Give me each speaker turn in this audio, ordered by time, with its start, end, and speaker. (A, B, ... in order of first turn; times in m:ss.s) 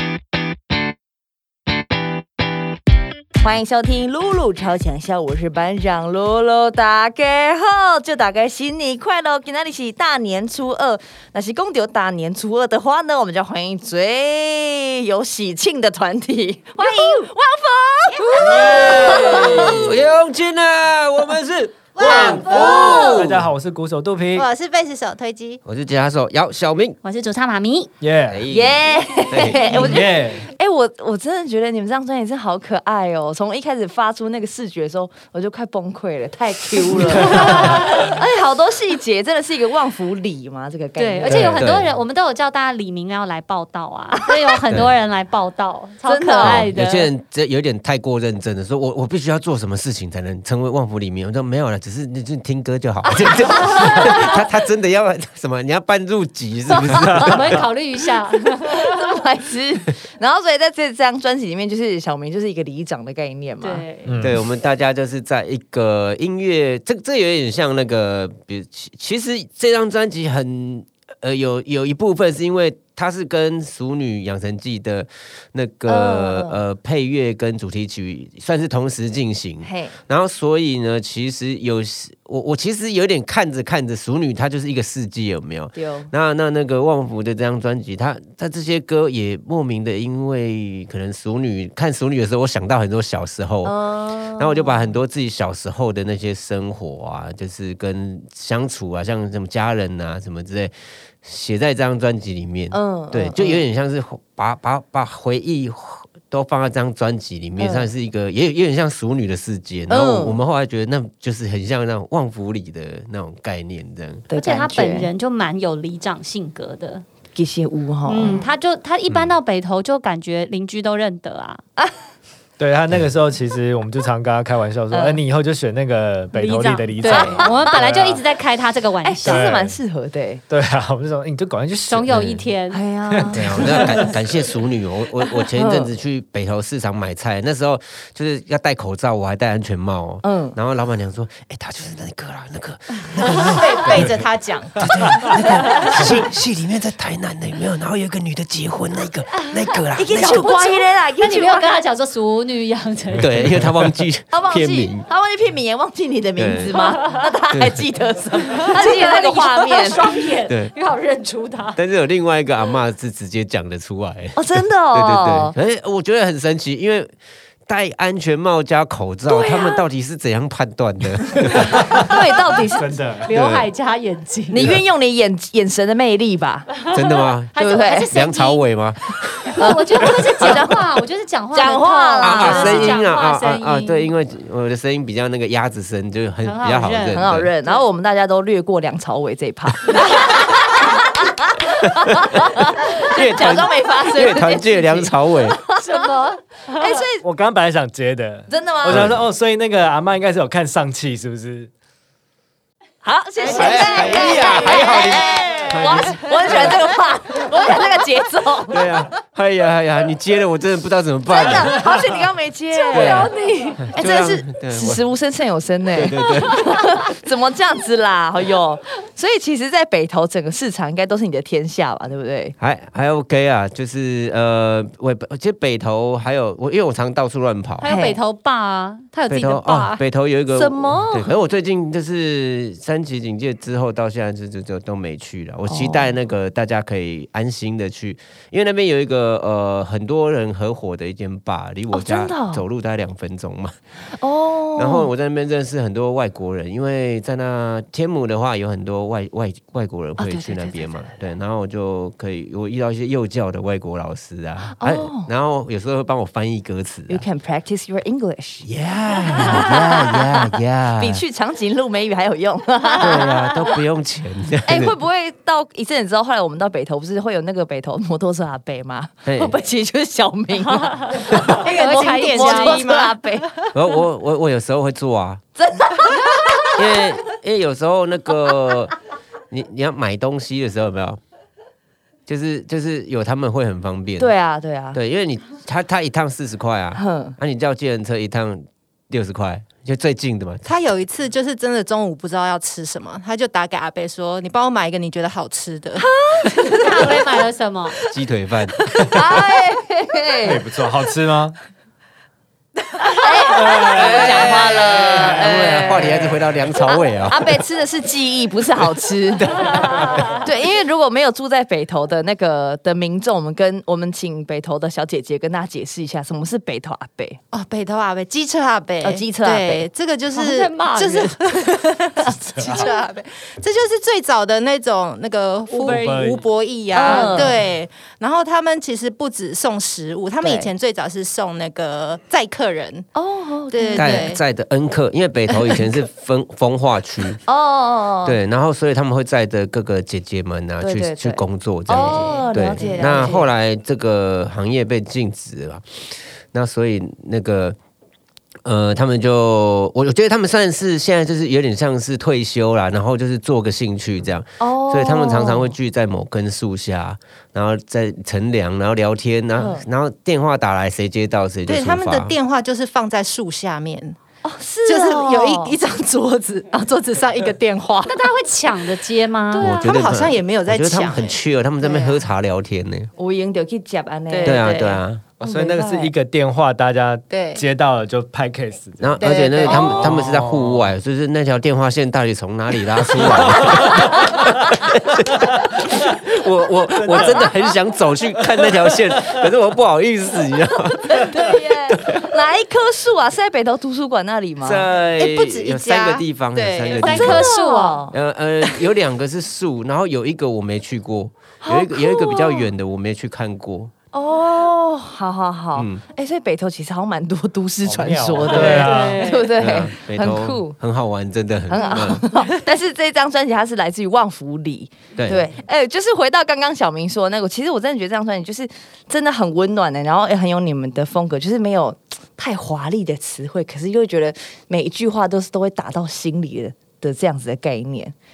0:03.4-0:19.9 A
0:18.4-0:23.5 B
0:18.5-0:19.8 C
0:18.6-0:18.9 D
0:22.0-0:24.5 E
0:22.0-0:23.3 D
0:24.4-0:25.6 D
0:25.6-0:27.0 B
0:27.0-0:27.9 C
0:28.0-0:28.4 E
0:28.3-0:28.8 B
0:28.5-0:41.6 A
0:29.3-0:30.0 B
0:29.6-0:30.5 E
0:37.5-0:37.8 C
0:41.0-0:47.1 C
0:41.3-0:41.9 B
0:44.7-0:45.0 B
0:46.1-0:46.7 A
0:46.4-0:57.6 B
0:53.5-0:54.0 A
0:56.7-0:57.4 A
0:57.2-0:59.1 C
0:58.4-1:03.9 A
1:03.6-1:04.2 C
1:04.0-1:04.4 E
1:04.2-1:33.8 B
1:15.9-1:16.6 A
1:19.6-1:20.0 A
1:25.7-1:26.1 A
1:33.6-1:35.0 A
1:34.4-1:54.3 B
1:42.7-1:43.6 A
1:47.6-1:47.9 A
1:49.9-1:50.4 A
1:54.3-1:55.1 A
1:54.4-1:57.0 C
1:57.3-1:58.5 A
1:58.1-2:01.6 C
1:59.1-1:59.4 B
2:02.6-2:08.2 E
2:04.9-2:05.2 A
2:06.3-2:09.4 C
2:07.1-2:07.8 A
2:09.0-2:10.4 A
2:09.2-2:09.8 E
2:10.5-2:12.5 E
2:11.9-2:12.8 C
2:12.7-2:14.1 A
2:13.1-2:14.1 E
2:13.3-2:24.2 B
2:15.5-2:15.9 A
2:20.2-2:20.6 A
2:23.2-2:24.9 D
2:24.8-2:30.5 B
2:30.0-2:31.8 A
2:30.1-2:33.3 C
2:33.2-2:35.1 B
2:34.3-2:40.2 A
2:36.4-2:36.9 B
2:37.5-2:37.8 B
2:38.7-2:41.8 C
2:40.5-2:40.7 B
2:41.8-2:47.1 B
2:44.4-2:45.6 A
2:47.7-2:52.1 B
2:49.3-2:49.8 A
2:51.6-2:53.0 A
2:51.7-2:52.1 E
2:52.7-2:53.6 E
2:53.2-2:54.7 C
2:54.5-2:56.7 A
2:56.9-2:58.6 C
2:56.9-2:59.7 B
2:57.5-2:58.1 A
2:59.6-3:04.1 C
2:59.6-3:03.0 A
3:02.2-3:07.5 B
3:06.4-3:07.8 C
3:07.2-3:17.2 A
3:12.0-3:15.6 B
3:15.8-3:17.0 C
3:17.2-3:21.7 E
3:18.5-3:19.0 A
3:18.9-3:19.2 B
3:23.0-3:29.0 A
3:23.5-3:26.8 B
3:23.6-3:24.7 D
3:28.7-3:31.8 B
3:31.3-3:42.6 A
3:32.9-3:33.3 B
3:33.8-3:35.0 B
3:35.9-3:37.0 B
3:42.6-3:47.9 B
3:47.8-3:50.0 C
3:47.9-3:48.2 A
3:49.3-4:03.8 B
3:50.5-3:51.4 A
3:55.7-3:56.2 A
4:01.9-4:02.6 A
4:04.1-4:05.1 A
4:04.8-4:17.2 B
4:10.2-4:11.3 A
4:14.6-4:15.3 A
4:17.1-4:18.7 A
4:18.6-4:21.2 B
4:19.3-4:20.4 A
4:21.0-4:23.7 A
4:23.0-4:24.9 B
4:24.6-4:33.5 A
4:29.2-4:29.6 B
4:30.7-4:31.1 C
4:31.6-4:33.1 D
4:31.6-4:32.9 C
4:33.7-4:35.4 B
4:35.6-4:37.0 A
4:36.7-4:38.9 B
4:39.5-4:41.2 B
4:42.3-4:44.3 B
4:44.2-4:45.0 A
4:44.9-4:50.7 B
4:47.0-4:47.4 A
4:50.6-4:56.0 D
4:56.0-4:57.4 A
4:56.8-4:58.0 C
4:58.1-4:58.9 B
4:58.8-5:00.7 A
5:00.4-5:01.6 E
5:03.0-5:06.4 A
5:03.5-5:05.4 E
5:04.1-5:07.6 B
5:07.2-5:17.4 A
5:17.5-5:33.1 D
5:19.0-5:19.9 A
5:20.3-5:21.4 C
5:22.6-5:22.8 E
5:25.7-5:26.4 E
5:25.8-5:26.1 C
5:26.9-5:27.6 A
5:27.0-5:27.4 C
5:30.4-5:30.7 A
5:33.2-5:34.3 A
5:33.7-5:34.4 D
5:34.0-5:37.4 B
5:37.5-5:38.4 A
5:38.2-5:47.8 B
5:40.8-5:43.5 A
5:41.9-5:42.4 C
5:48.6-6:02.4 B
5:54.6-5:55.8 A
5:59.6-5:59.9 A
6:01.7-6:04.2 D
6:04.4-6:05.8 A
6:04.9-6:08.3 D
6:08.0-6:09.7 C
6:09.5-6:12.2 D
6:09.6-6:13.1 B
6:13.2-6:14.6 A
6:14.3-6:15.0 D
6:14.4-6:15.3 B
6:15.4-6:20.9 E
6:15.4-6:16.1 A
6:17.3-6:17.7 D
6:19.0-6:32.2 B
6:19.2-6:20.2 D
6:23.5-6:24.7 E
6:27.0-6:27.5 E
6:31.1-6:34.9 A
6:34.6-6:37.5 B
6:35.2-6:37.2 D
6:37.0-6:38.2 A
6:37.0-6:38.0 C
6:38.1-6:43.9 B
6:41.6-6:42.7 A
6:44.1-6:50.8 A
6:45.8-6:46.0 B
6:47.8-6:49.3 E
6:48.7-6:49.5 C
6:49.6-6:52.2 B
6:51.7-7:08.1 A
6:51.8-6:52.0 C
6:55.2-6:55.5 B